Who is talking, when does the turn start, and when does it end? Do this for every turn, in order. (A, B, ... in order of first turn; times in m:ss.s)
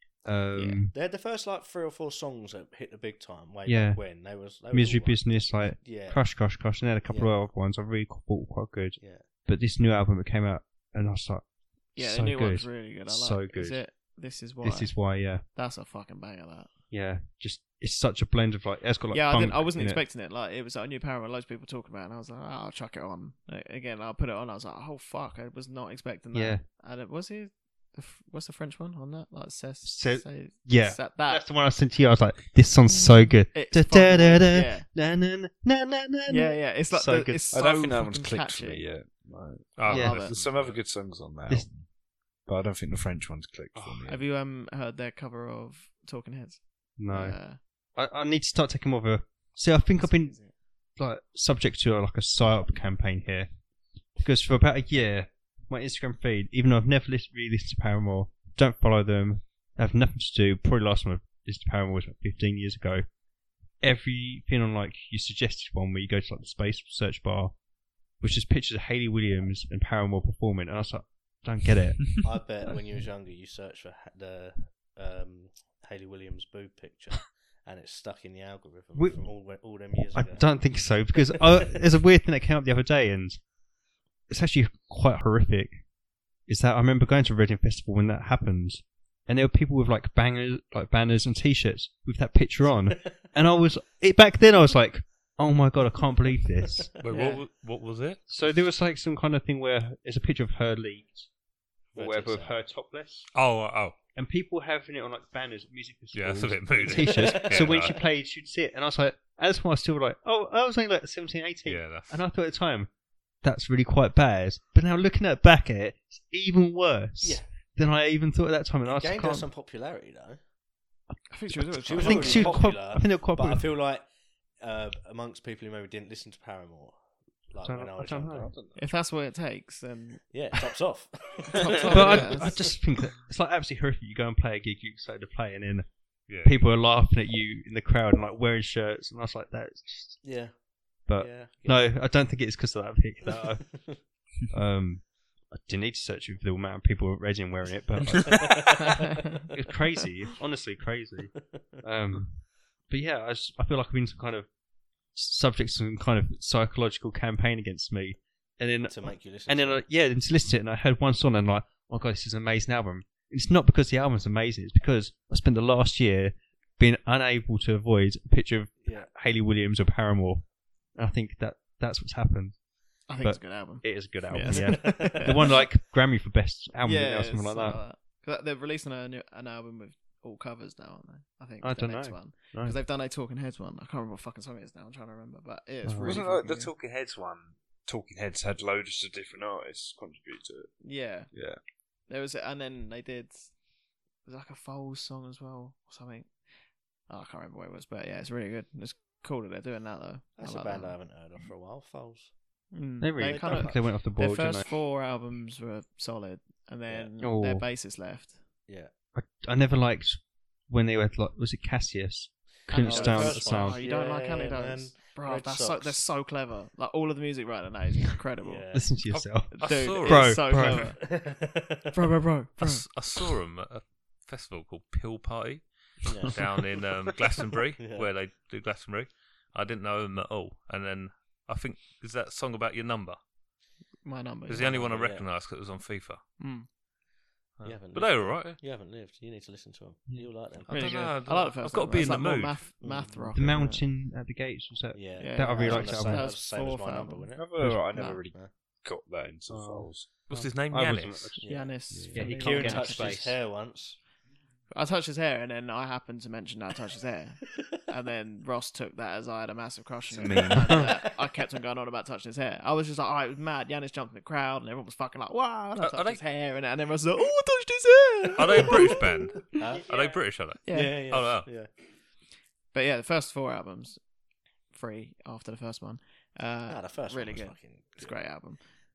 0:00.2-0:00.9 A
0:00.5-0:00.8 B
0:00.9-0:06.5 C
0:03.6-0:11.4 A
0:07.0-0:07.4 C
0:09.0-0:09.2 C
0:12.0-0:13.8 A
0:12.0-0:16.7 B
0:14.6-0:15.4 A
0:16.9-0:20.0 A
0:19.1-0:31.5 B
0:26.3-0:26.6 A
0:29.8-0:37.4 A
0:33.5-0:34.9 B
0:36.3-0:38.9 B
0:37.5-0:44.2 D
0:39.8-0:40.7 E
0:39.8-0:40.3 B
0:39.9-0:40.4 A
0:41.4-0:41.7 A
0:43.7-0:44.0 A
0:44.0-0:47.6 B
0:47.0-0:47.4 A
0:47.9-0:50.4 A
0:49.9-0:50.5 B
0:51.0-0:53.6 A
0:54.1-1:03.0 A
1:03.8-1:07.6 A
1:08.1-1:12.3 A
1:12.2-1:21.2 C
1:18.9-1:23.5 A
1:24.3-1:25.9 A
1:26.4-1:36.9 A
1:37.0-1:38.2 E
1:37.1-1:37.4 B
1:38.3-1:41.3 A
1:41.9-1:43.3 A
1:41.9-1:42.6 C
1:43.3-1:43.9 E
1:44.1-1:52.9 A
1:46.1-1:48.0 E
1:46.8-1:47.8 C
1:51.6-1:52.2 E
1:53.4-1:59.5 A
1:57.2-1:57.5 C
1:58.8-2:00.4 C
2:01.3-2:02.7 B
2:01.8-2:08.5 C
2:01.9-2:03.7 A
2:07.6-2:08.5 A
2:08.4-2:08.8 D
2:08.8-2:10.3 B
2:10.3-2:12.7 C
2:11.6-2:12.7 B
2:11.9-2:20.5 A
2:16.3-2:16.6 E
2:20.2-2:22.0 C
2:21.0-2:34.5 A
2:23.4-2:23.9 C
2:28.4-2:28.9 C
2:35.0-2:57.8 A
2:38.9-2:39.8 C
2:48.8-2:49.1 C
2:53.1-2:55.7 B
2:54.3-2:55.3 C
2:56.8-3:06.7 B
3:01.6-3:02.8 A
3:05.8-3:06.2 A
3:06.0-3:10.7 D
3:10.8-3:11.3 B
3:11.3-3:11.6 D
3:12.1-3:13.6 B
3:14.2-3:16.4 B
3:17.1-3:21.0 B
3:20.4-3:22.3 C
3:22.7-3:28.4 B
3:23.0-3:24.7 A
3:23.2-3:23.8 C
3:27.2-3:27.7 A
3:29.1-3:33.8 A
3:32.7-3:38.8 B
3:32.8-3:36.0 C
3:38.4-3:38.9 C
3:38.7-3:41.0 A
3:39.1-3:40.5 E
3:39.5-3:41.2 B
3:40.7-3:41.9 C
3:41.9-3:42.8 B
3:42.6-3:53.2 E
3:46.0-3:46.5 C
3:47.8-3:48.1 C
3:54.0-3:54.8 B
3:54.5-3:56.2 E
3:54.6-3:55.3 C
3:56.4-3:56.7 B
3:57.6-3:58.6 E
3:57.6-4:00.7 C
4:00.1-4:00.3 A
4:00.7-4:02.6 E
4:00.7-4:03.8 B
4:02.8-4:03.3 C
4:03.3-4:06.3 A
4:04.9-4:07.5 C
4:05.2-4:07.3 B
4:07.4-4:10.1 D
4:07.6-4:07.9 A
4:07.9-4:08.2 B
4:09.5-4:13.4 A
4:10.3-4:11.4 E
4:11.4-4:14.0 C
4:11.4-4:13.4 B
4:14.7-4:29.5 B
4:20.1-4:20.9 D
4:25.8-4:26.2 E
4:28.3-4:31.5 E
4:28.5-4:29.0 C
4:29.6-4:31.7 C
4:30.6-4:31.0 B
4:32.7-4:34.0 B
4:34.7-4:38.7 B
4:36.7-4:38.2 C